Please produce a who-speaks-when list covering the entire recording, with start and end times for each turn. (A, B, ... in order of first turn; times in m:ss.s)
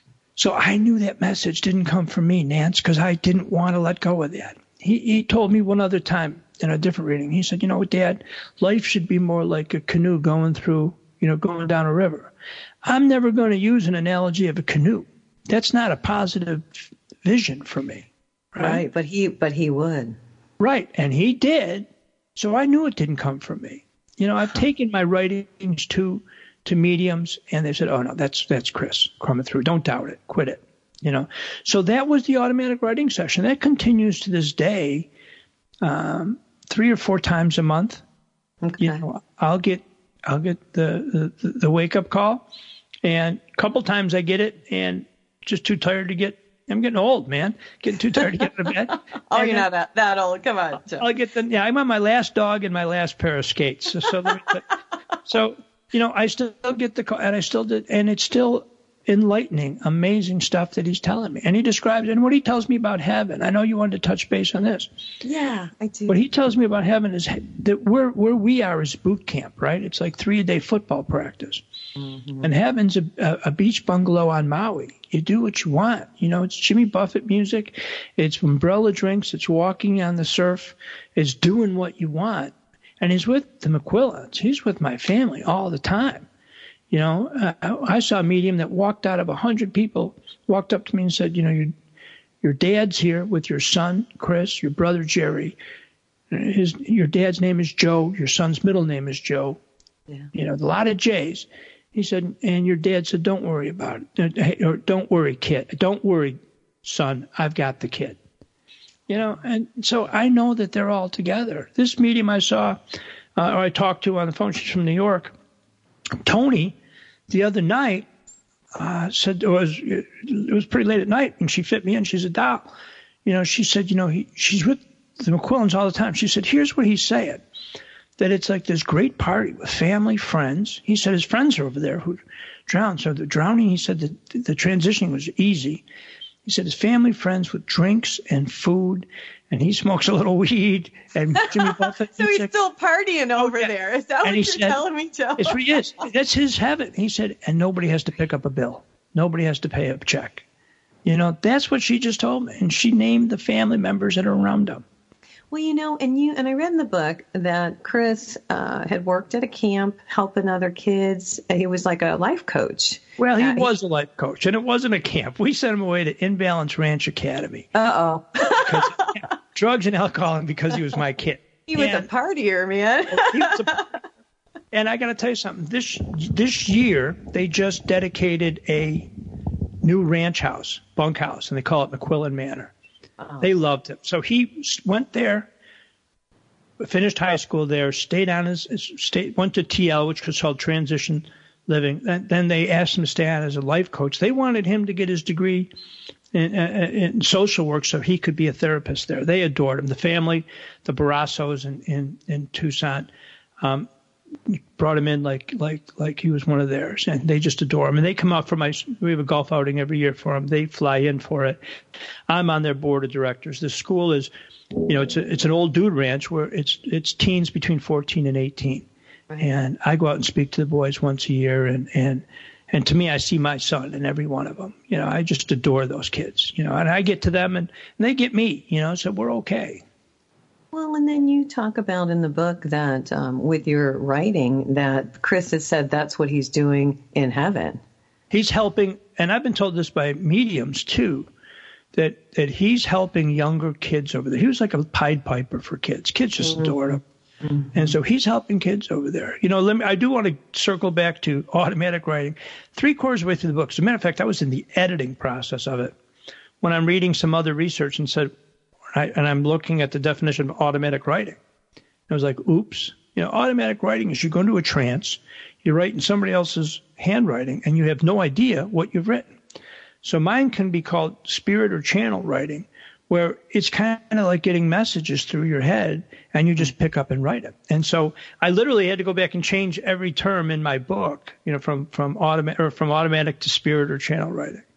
0:00.4-0:12.3 A
0:12.8-0:18.8 A
0:18.6-0:20.2 B
0:20.6-0:35.1 A
0:35.8-0:38.0 A
0:38.6-0:39.0 B
0:38.8-0:42.4 A
0:43.0-0:49.7 A
0:48.4-0:51.1 B
0:51.0-0:54.6 A
0:55.2-1:04.9 A
1:05.2-1:06.2 B
1:06.1-1:11.6 A
1:12.0-1:12.5 B
1:12.4-1:26.3 A
1:26.9-1:31.7 A
1:32.4-1:35.6 A
1:36.3-1:39.6 A
1:40.3-1:48.2 A
1:49.1-1:52.8 A
1:53.4-1:55.3 A
1:56.2-1:56.8 A
1:57.3-1:58.1 A
1:58.7-2:02.7 A
2:03.2-2:07.4 A
2:08.2-2:15.8 A
2:16.4-2:22.5 A
2:21.4-2:26.0 B
2:23.4-2:24.8 A
2:25.4-2:30.4 A
2:31.0-2:34.8 A
2:35.5-2:43.7 B
2:43.2-2:47.7 A
2:47.7-2:49.1 B
2:48.6-2:52.1 A
2:51.7-2:53.8 B
2:53.1-2:53.8 A
2:54.7-2:59.1 A
2:59.8-3:02.7 A
3:03.2-3:03.5 B
3:03.4-3:05.5 A
3:06.8-3:15.7 A
3:16.3-3:23.1 A
3:23.6-3:23.9 A
3:24.4-3:31.6 A
3:32.3-3:34.3 A
3:34.8-3:38.9 A
3:39.4-3:49.8 A
3:50.7-3:57.8 B
3:58.3-4:01.3 A
4:01.9-4:07.0 A
4:06.4-4:07.9 B
4:07.7-4:15.9 A
4:16.6-4:18.3 A
4:18.9-4:21.4 A
4:22.1-4:29.3 A
4:30.0-4:44.6 A